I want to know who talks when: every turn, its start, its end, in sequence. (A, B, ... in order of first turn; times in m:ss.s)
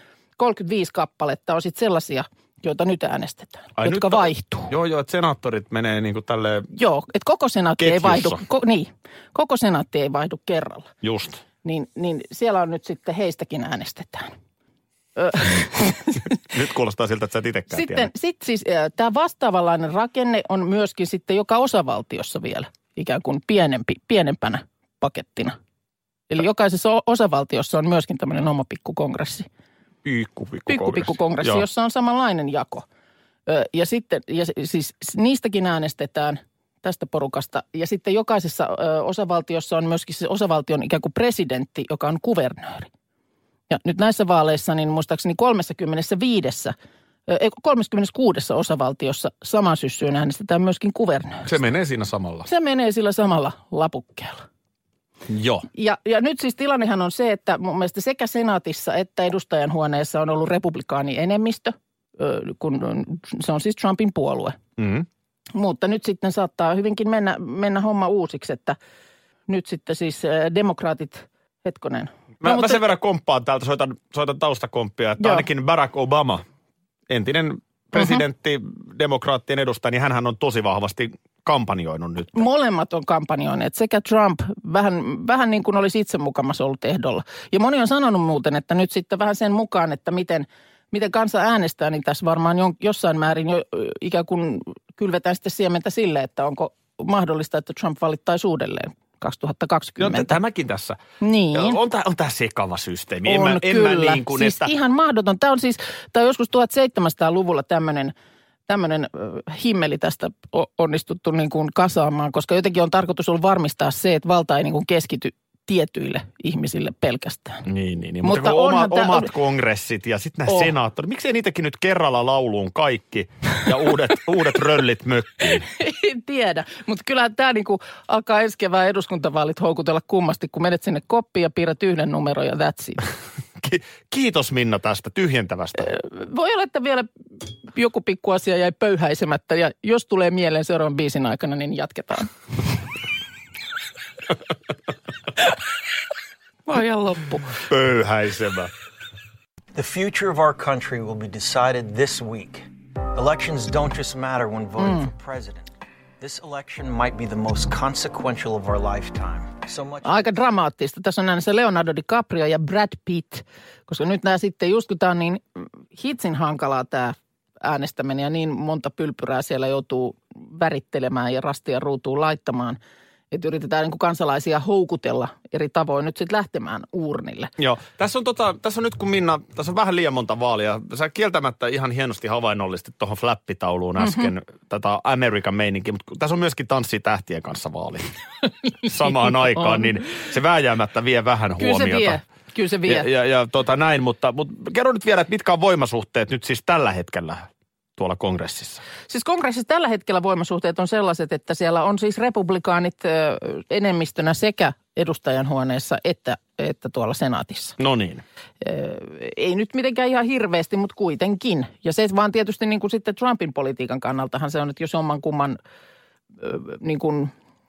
0:00.4-0:04.7 A
0:03.8-0:06.7 B
0:06.7-0:10.9 A
0:07.8-0:08.4 B
0:11.0-0:11.4 B
0:11.6-0:14.3 A
0:15.2-0:16.4 A
0:16.4-0:18.1 B
0:17.7-0:25.6 A
0:26.3-0:29.5 A
0:30.0-0:31.6 B
0:30.7-0:32.9 A
0:33.5-0:42.9 A
0:43.7-0:46.7 A
0:47.3-0:51.5 A
0:51.4-0:52.5 B
0:52.5-0:54.4 A
0:55.3-0:55.7 B
0:55.7-1:04.6 A
1:04.8-1:05.1 B
1:05.5-1:08.8 A
1:09.5-1:12.8 A
1:12.4-1:16.4 B
1:15.2-1:15.4 A
1:17.1-1:22.5 B
1:17.9-1:18.2 A
1:22.4-1:40.4 A
1:40.0-1:41.0 B
1:41.2-1:41.8 A
1:41.5-1:44.7 B
1:43.2-1:48.1 A
1:48.7-1:57.6 A
1:57.6-2:05.7 B
1:58.2-1:59.3 A
2:05.7-2:13.0 A
2:13.6-2:15.9 B
2:15.8-2:17.1 A
2:17.7-2:22.3 A
2:26.7-2:27.6 A
2:27.6-2:28.7 B
2:29.7-2:40.3 C
2:34.8-2:35.1 A
2:40.0-2:52.8 A
2:53.3-2:57.5 A
2:57.6-3:08.1 B
3:04.0-3:04.3 A
3:08.8-3:12.2 B
3:09.2-3:09.8 A
3:11.6-3:13.1 A
3:12.9-3:18.8 B
3:19.1-3:27.8 A
3:27.8-3:28.2 B
3:28.6-3:35.6 A
3:36.4-3:37.3 A